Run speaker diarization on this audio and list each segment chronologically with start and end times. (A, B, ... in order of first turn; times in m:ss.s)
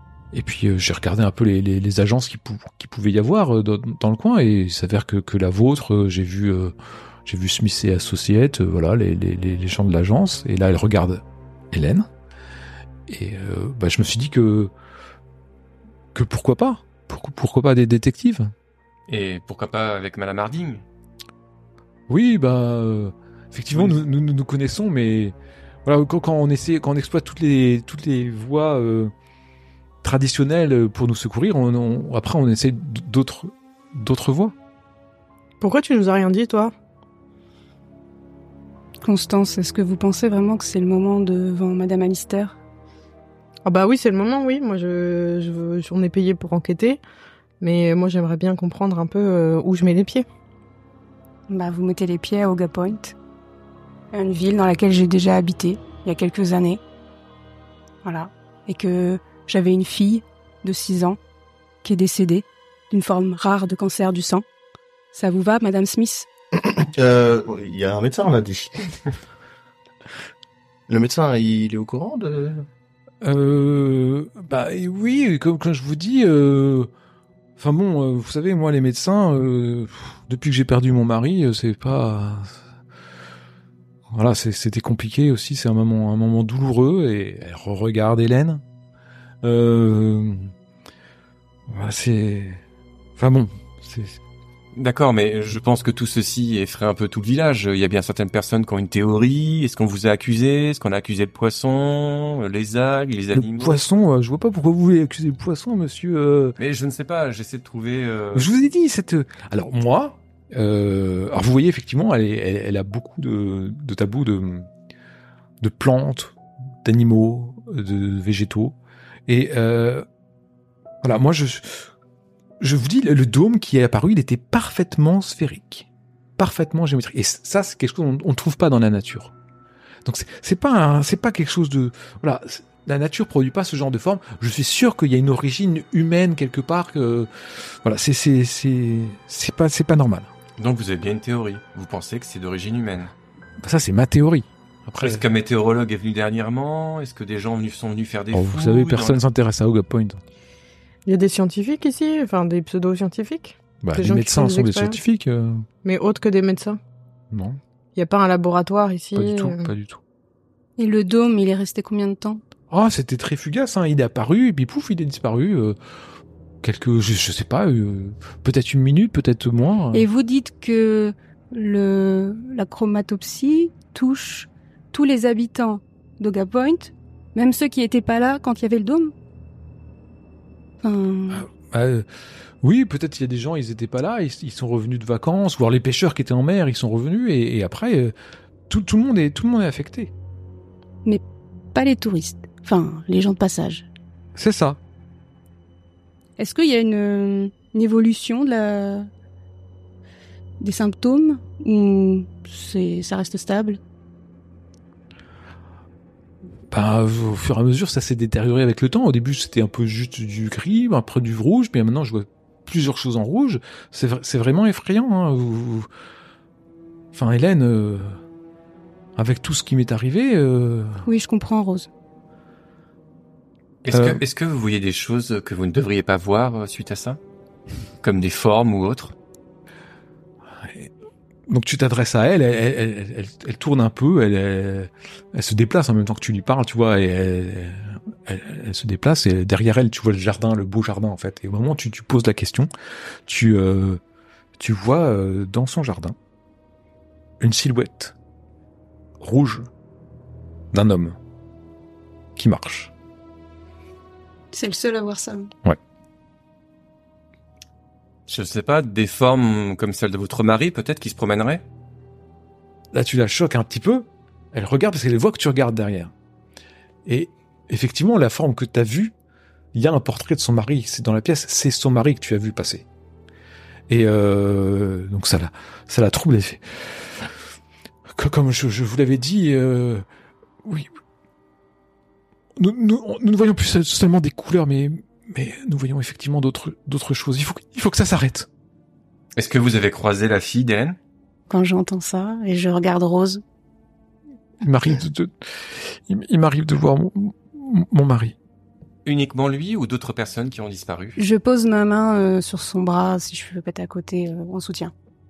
0:00.3-0:12.1 A
0:13.1-0:14.7 A
0:16.1-0:18.5 A
0:19.1-0:20.8 B
0:22.1-0:29.1 A
0:23.7-0:24.0 B
0:30.0-0:34.6 A
0:35.6-0:36.7 C
0:39.0-0:42.6 D
0:43.7-0:47.0 C
0:47.6-0:50.3 C
0:51.5-0:53.2 D
0:54.1-0:56.8 D
0:58.0-1:01.2 D
1:01.8-1:04.4 D
1:05.1-1:06.3 D
1:06.6-1:09.0 E
1:10.9-1:12.7 E
1:13.2-1:16.9 A
1:17.6-1:22.6 A
1:24.1-1:28.6 A
1:29.4-1:30.5 A
1:31.7-1:32.6 A
1:33.2-1:34.2 A
1:34.8-1:43.8 B
1:43.3-1:46.6 A
1:46.6-1:48.5 B
1:48.3-1:54.7 A
1:55.6-1:58.8 A
1:59.3-2:00.0 A
2:01.0-2:01.9 A
2:02.6-2:09.3 A
2:10.0-2:20.3 A
2:20.6-2:23.1 B
2:23.6-2:25.2 A
2:25.0-2:29.2 B
2:28.3-2:30.2 A
2:31.1-2:35.0 C
2:33.8-2:35.7 A
2:35.8-2:36.8 C
2:37.3-2:37.6 A
2:38.0-2:39.7 C
2:39.2-2:40.0 A
2:40.8-2:42.4 D
2:42.7-2:45.8 A
2:46.6-2:50.1 A
2:49.9-2:59.1 D
3:00.8-3:01.5 D
3:01.3-3:02.1 A
3:02.6-3:08.1 A
3:08.7-3:10.1 A
3:11.7-3:13.9 D
3:14.4-3:14.8 A
3:16.4-3:19.1 D
3:20.6-3:23.8 D
3:26.7-3:35.9 A
3:37.1-3:38.2 A
3:39.2-3:41.0 A
3:41.0-3:41.9 D
3:43.8-3:47.2 B
3:43.9-3:44.2 A
3:48.0-3:49.2 B
3:50.6-3:50.9 A
3:51.5-4:02.7 A
4:03.3-4:04.0 A
4:04.6-4:06.2 A
4:07.4-4:08.2 A
4:09.2-4:09.7 A
4:10.7-4:11.2 A
4:12.4-4:12.9 A
4:14.5-4:15.5 D
4:18.3-4:21.6 B
4:22.9-4:26.1 A
4:27.1-4:29.1 A
4:29.7-4:32.8 A
4:33.9-4:37.3 A
4:38.1-4:40.0 A
4:40.6-4:40.9 A
4:42.6-4:48.5 A
4:49.4-4:51.0 B
4:51.5-4:53.4 D
4:54.6-4:58.4 A
4:59.0-5:01.2 B
5:01.2-5:04.9 D